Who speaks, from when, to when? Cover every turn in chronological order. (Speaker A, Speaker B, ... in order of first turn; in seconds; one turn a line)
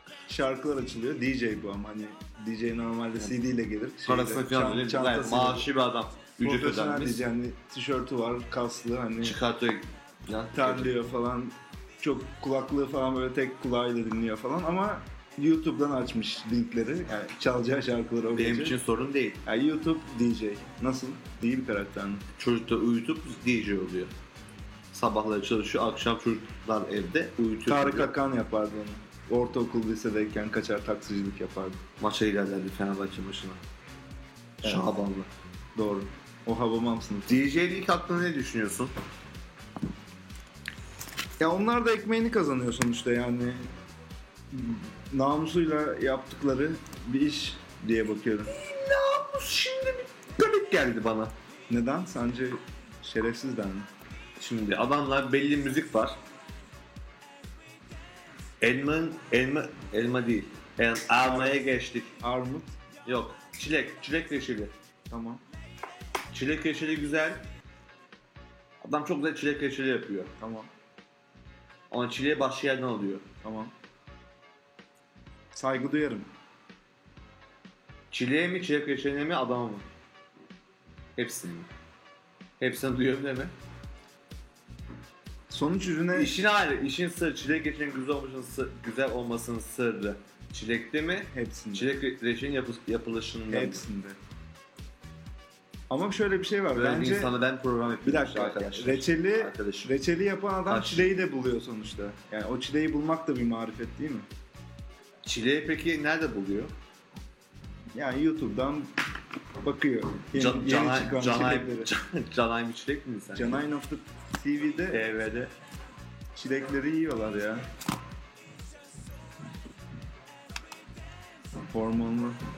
Speaker A: 0.3-5.7
Speaker B: 4.0-7.2
Speaker A: 6.4-9.4
Speaker B: 9.2-10.9
Speaker A: 10.5-18.8
Speaker B: 18.3-19.4
Speaker A: 19.4-22.2
Speaker B: 22.4-24.1
Speaker B: 24.9-28.1
Speaker A: 27.7-31.8
Speaker B: 32.0-33.6
Speaker A: 34.6-34.9
Speaker B: 34.6-35.3
Speaker A: 35.8-37.4
Speaker B: 37.3-38.9
Speaker A: 41.4-43.7
Speaker A: 44.5-48.5
Speaker B: 48.5-51.3
Speaker A: 51.7-53.9
Speaker B: 54.4-56.2
Speaker B: 58.6-62.1
Speaker A: 61.2-61.6
Speaker A: 62.2-62.7
Speaker B: 63.1-64.7
Speaker A: 65.1-65.4
Speaker B: 66.3-67.5
Speaker B: 68.8-70.3
Speaker A: 70.4-70.7
Speaker B: 71.9-73.2
Speaker A: 73.4-73.7
Speaker A: 75.5-76.3
Speaker B: 78.1-79.9
Speaker B: 81.2-81.7
Speaker B: 82.6-83.5
Speaker A: 85.5-86.4
Speaker B: 86.2-93.8
Speaker A: 91.3-92.0
Speaker A: 93.5-94.2
Speaker A: 95.9-97.3
Speaker B: 96.7-99.9
Speaker A: 98.0-104.3
Speaker B: 100.7-101.1
Speaker B: 105.2-106.7
Speaker A: 107.9-108.9
Speaker A: 109.6-111.9
Speaker B: 110.3-113.6
Speaker A: 113.3-115.0
Speaker B: 114.9-115.5
Speaker A: 116.3-117.7
Speaker A: 121.7-122.4